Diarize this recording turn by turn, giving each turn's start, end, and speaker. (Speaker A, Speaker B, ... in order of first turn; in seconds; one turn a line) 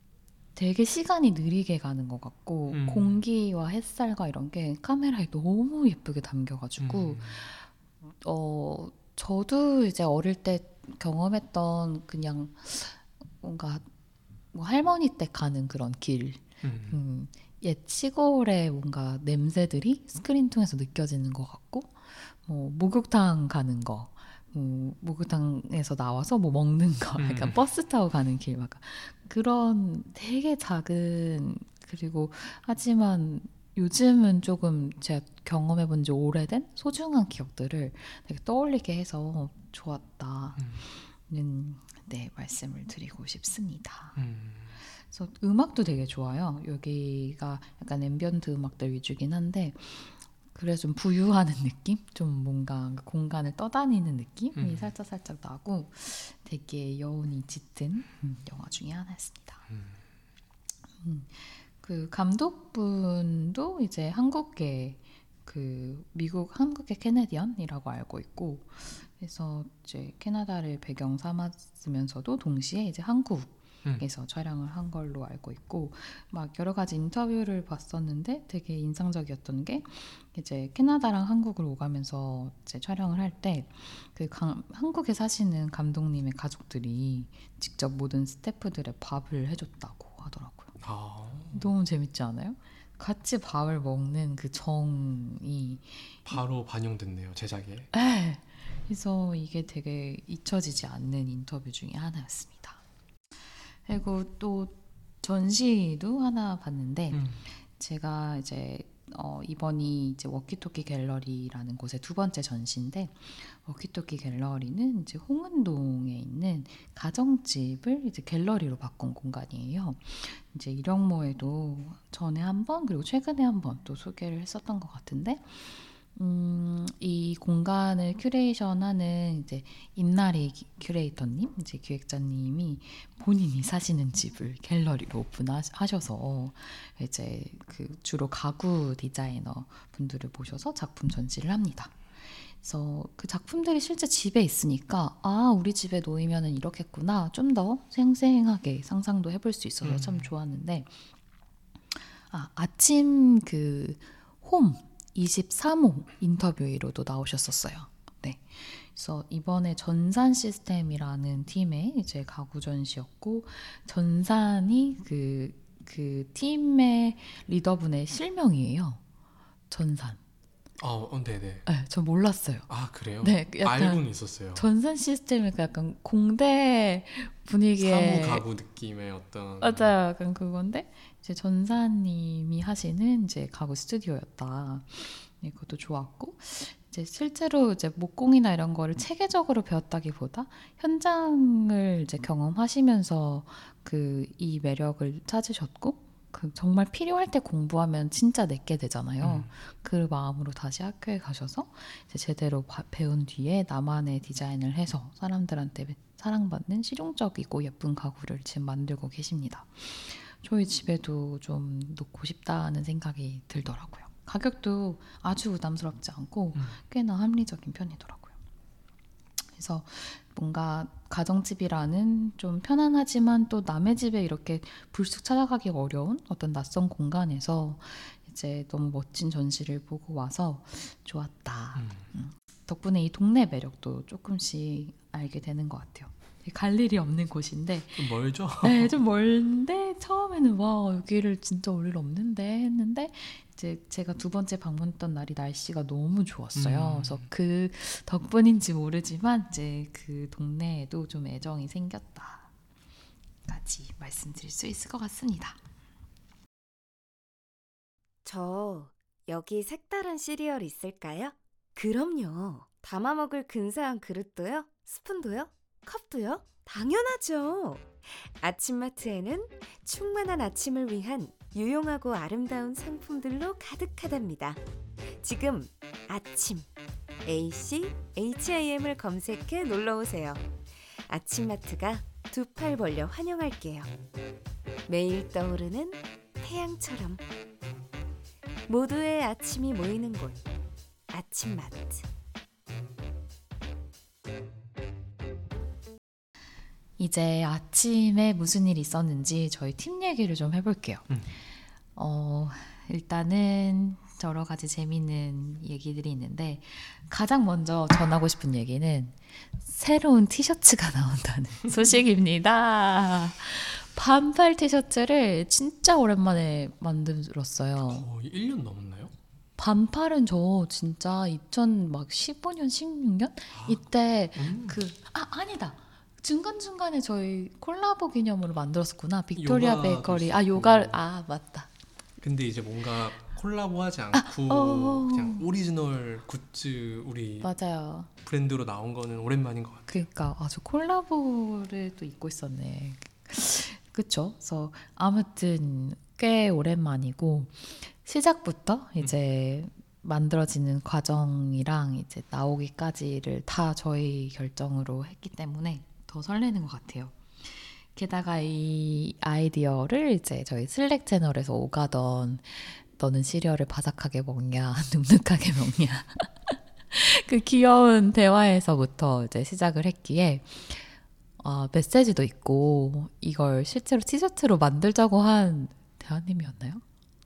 Speaker A: 0.6-7.7
Speaker B: 2.7-3.2
Speaker B: 6.8-7.4
Speaker A: 8.2-13.9
Speaker A: 14.5-44.2
Speaker B: 16.6-17.0
Speaker B: 27.2-27.6
Speaker B: 40.6-40.8
Speaker B: 44.2-44.8
Speaker A: 45.0-59.7
Speaker B: 54.6-54.9
Speaker B: 59.7-60.0
Speaker A: 61.0-90.7
Speaker B: 90.8-91.7
Speaker A: 91.5-96.4
Speaker B: 96.3-97.9
Speaker A: 97.9-102.8
Speaker A: 103.9-142.0
Speaker B: 107.1-107.4
Speaker A: 142.6-150.9
Speaker B: 149.8-150.3
Speaker A: 151.9-169.0
Speaker A: 169.7-170.2
Speaker B: 170.8-171.7
Speaker A: 171.7-172.7
Speaker B: 172.7-174.6
Speaker A: 173.2-178.4
Speaker B: 177.8-179.9
Speaker A: 179.6-218.3
Speaker B: 199.2-199.5
Speaker A: 219.6-238.1
Speaker B: 231.8-232.0
Speaker B: 237.9-238.9
Speaker A: 238.6-252.5
Speaker B: 246.6-247.3
Speaker A: 253.5-255.6
Speaker C: 258.2-274.6
Speaker C: 275.2-276.7
Speaker C: 277.2-280.4
Speaker C: 281.1-283.9
Speaker C: 284.9-287.2
Speaker C: 288.7-290.4
Speaker C: 291.1-292.1
Speaker A: 297.0-301.1
Speaker A: 302.0-318.1
Speaker B: 317.9-319.1
Speaker A: 319.6-331.7
Speaker B: 323.5-323.8
Speaker B: 324.4-324.8
Speaker B: 329.4-331.0
Speaker B: 332.2-337.5
Speaker A: 334.1-335.5
Speaker A: 337.4-338.1
Speaker B: 338.2-340.1
Speaker A: 339.9-376.8